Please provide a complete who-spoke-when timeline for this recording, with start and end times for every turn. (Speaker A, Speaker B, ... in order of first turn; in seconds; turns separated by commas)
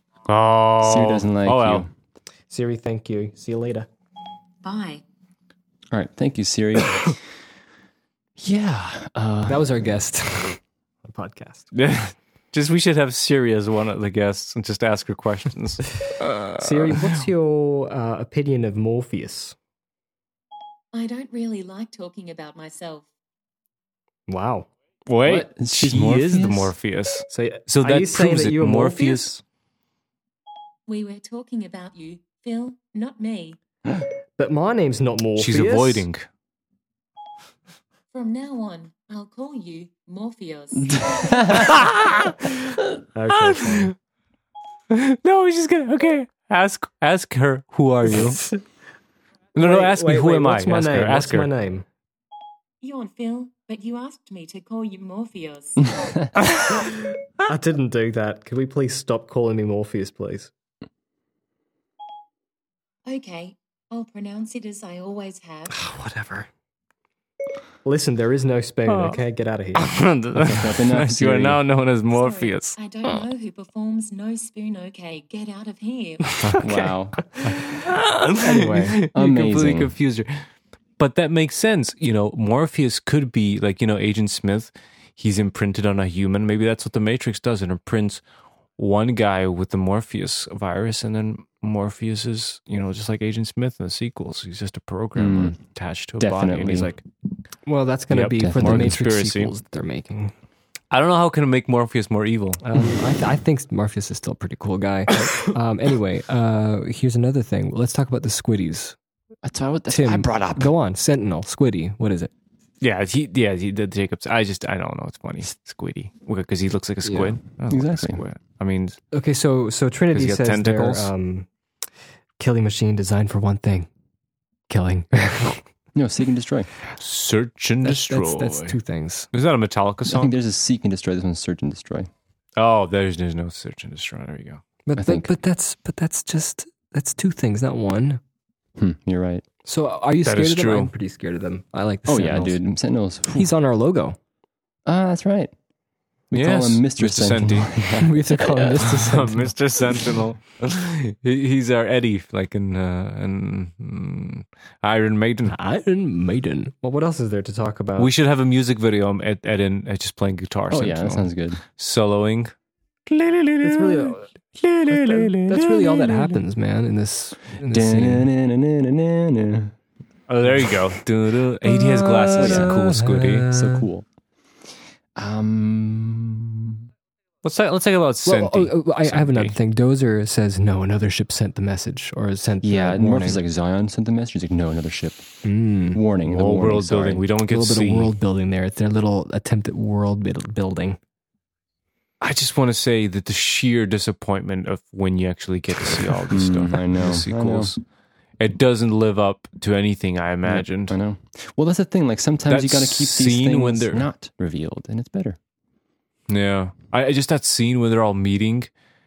Speaker A: 0.3-1.9, Speaker B: 0.8-1.9, Speaker C: 2.5-3.9, Speaker D: 4.6-5.0, Speaker B: 5.9-7.2, Speaker B: 8.4-9.8, Speaker C: 9.4-11.7, Speaker A: 11.7-17.2, Speaker C: 16.6-19.6, Speaker D: 20.9-23.1, Speaker C: 24.3-24.7, Speaker A: 25.1-29.3, Speaker B: 25.2-26.7, Speaker C: 27.3-29.4, Speaker D: 30.9-33.6, Speaker C: 34.4-36.0, Speaker A: 35.4-36.3, Speaker D: 38.1-41.8, Speaker B: 40.9-41.8, Speaker A: 41.7-42.4, Speaker C: 43.1-43.9, Speaker A: 43.3-43.9, Speaker A: 44.9-48.4, Speaker C: 48.1-48.6, Speaker A: 49.5-51.5, Speaker C: 49.6-51.8, Speaker D: 52.8-56.5, Speaker C: 57.4-60.5, Speaker D: 63.0-65.8, Speaker C: 65.7-66.5, Speaker C: 67.8-69.9, Speaker A: 68.9-69.2, Speaker A: 69.7-73.2, Speaker B: 70.3-71.6, Speaker D: 72.1-76.4, Speaker B: 76.5-77.2, Speaker A: 77.4-80.4, Speaker C: 78.4-79.0, Speaker B: 79.1-79.9, Speaker A: 81.0-88.2, Speaker A: 88.8-97.0, Speaker B: 95.2-95.6, Speaker B: 96.2-96.9, Speaker C: 97.7-100.3, Speaker A: 98.1-99.5, Speaker B: 98.4-99.0, Speaker A: 100.9-102.6, Speaker C: 102.6-109.0, Speaker B: 109.4-110.7, Speaker C: 109.9-112.3, Speaker A: 112.8-119.0, Speaker C: 117.0-117.4, Speaker B: 117.7-118.2, Speaker C: 119.1-121.5, Speaker A: 120.1-121.1, Speaker C: 122.4-123.9, Speaker C: 124.7-125.6, Speaker B: 125.9-126.7, Speaker A: 127.0-128.8, Speaker C: 127.8-129.3, Speaker A: 129.3-130.3, Speaker B: 130.1-132.1, Speaker A: 132.6-134.6, Speaker C: 134.8-138.2, Speaker B: 134.9-135.3, Speaker B: 138.8-139.4, Speaker C: 139.6-142.6, Speaker A: 140.2-140.9, Speaker B: 142.1-143.5, Speaker C: 143.3-144.2, Speaker B: 144.8-145.5, Speaker B: 146.3-148.7, Speaker A: 146.3-147.7, Speaker C: 147.9-149.5, Speaker A: 148.8-155.6, Speaker C: 155.5-158.1, Speaker A: 158.0-162.5, Speaker B: 160.7-161.6, Speaker A: 163.1-166.4, Speaker C: 163.6-164.3, Speaker C: 164.9-168.3, Speaker B: 167.7-169.7, Speaker A: 170.3-173.5, Speaker C: 172.2-173.8, Speaker B: 172.3-174.1, Speaker B: 175.2-176.8, Speaker A: 177.4-179.5, Speaker C: 178.2-183.4, Speaker B: 182.6-185.2, Speaker C: 185.4-186.0, Speaker B: 185.9-187.2, Speaker A: 186.3-188.1, Speaker C: 187.5-191.0, Speaker A: 192.2-197.8, Speaker B: 196.3-197.7, Speaker A: 198.4-201.0, Speaker B: 200.4-205.4, Speaker A: 202.5-204.1, Speaker A: 206.3-208.7